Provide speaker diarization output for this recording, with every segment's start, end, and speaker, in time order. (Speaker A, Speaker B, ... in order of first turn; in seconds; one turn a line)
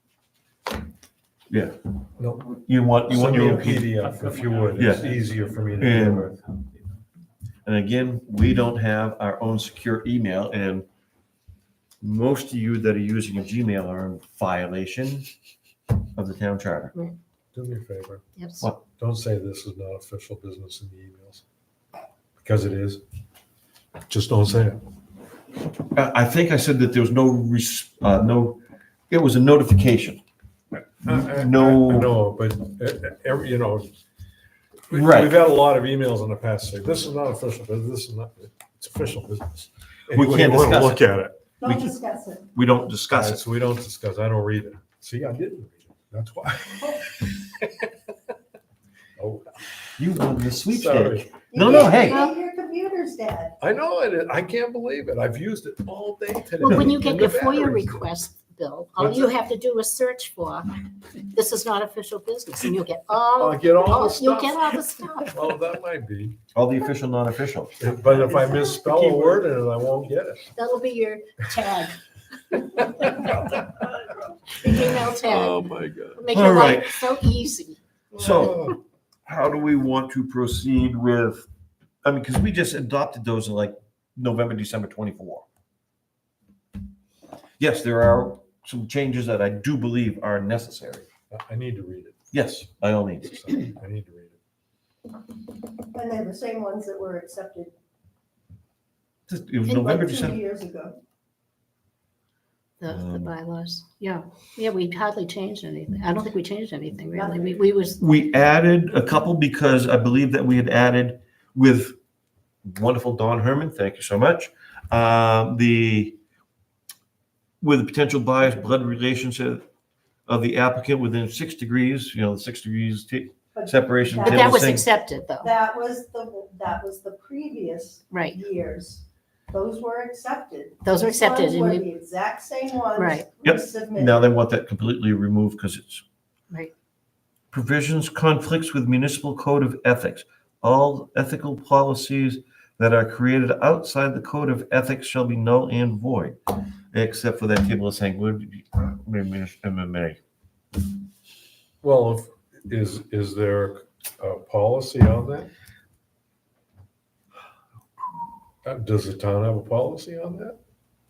Speaker A: 2.2-2.5
Speaker B: 2.5-3.9
Speaker A: 3.1-6.4
Speaker B: 4.8-5.0
Speaker B: 5.8-6.3
Speaker B: 7.6-10.9
Speaker B: 12.0-15.3
Speaker B: 16.1-16.9
Speaker A: 17.5-18.2
Speaker C: 18.4-18.6
Speaker A: 18.9-21.4
Speaker A: 22.4-23.0
Speaker A: 24.1-24.8
Speaker B: 25.9-28.6
Speaker B: 29.1-30.2
Speaker A: 30.9-33.9
Speaker B: 31.1-32.1
Speaker A: 34.9-41.4
Speaker B: 34.9-35.4
Speaker B: 40.1-41.0
Speaker D: 41.6-42.5
Speaker B: 41.6-42.0
Speaker B: 42.5-43.4
Speaker A: 43.1-47.9
Speaker A: 49.2-49.5
Speaker B: 50.0-52.2
Speaker A: 50.7-52.0
Speaker D: 51.5-53.6
Speaker C: 52.0-52.3
Speaker A: 53.6-58.1
Speaker C: 56.6-65.4
Speaker A: 59.0-59.4
Speaker A: 63.4-66.3
Speaker B: 66.5-67.8
Speaker A: 67.8-70.5
Speaker C: 70.5-72.0
Speaker C: 72.5-73.4
Speaker A: 72.8-73.8
Speaker C: 74.5-77.8
Speaker A: 74.7-76.2
Speaker B: 76.3-77.1
Speaker B: 78.2-78.7
Speaker A: 78.2-78.8
Speaker B: 79.2-81.5
Speaker B: 82.0-85.4
Speaker B: 87.6-91.1
Speaker A: 91.3-92.2
Speaker B: 92.3-93.6
Speaker A: 93.3-94.4
Speaker D: 95.9-97.7
Speaker B: 99.3-100.4
Speaker D: 99.7-101.0
Speaker C: 102.8-108.0
Speaker B: 102.9-103.3
Speaker D: 107.1-107.6
Speaker B: 108.0-112.0
Speaker B: 112.7-116.2
Speaker B: 117.6-119.6
Speaker B: 120.3-124.8
Speaker D: 123.5-124.7
Speaker C: 124.2-125.5
Speaker D: 125.4-134.2
Speaker C: 128.1-128.4
Speaker C: 130.8-131.9
Speaker C: 132.9-133.3
Speaker B: 133.4-136.0
Speaker B: 137.5-146.4
Speaker B: 146.9-150.2
Speaker A: 151.8-155.5
Speaker A: 158.6-160.6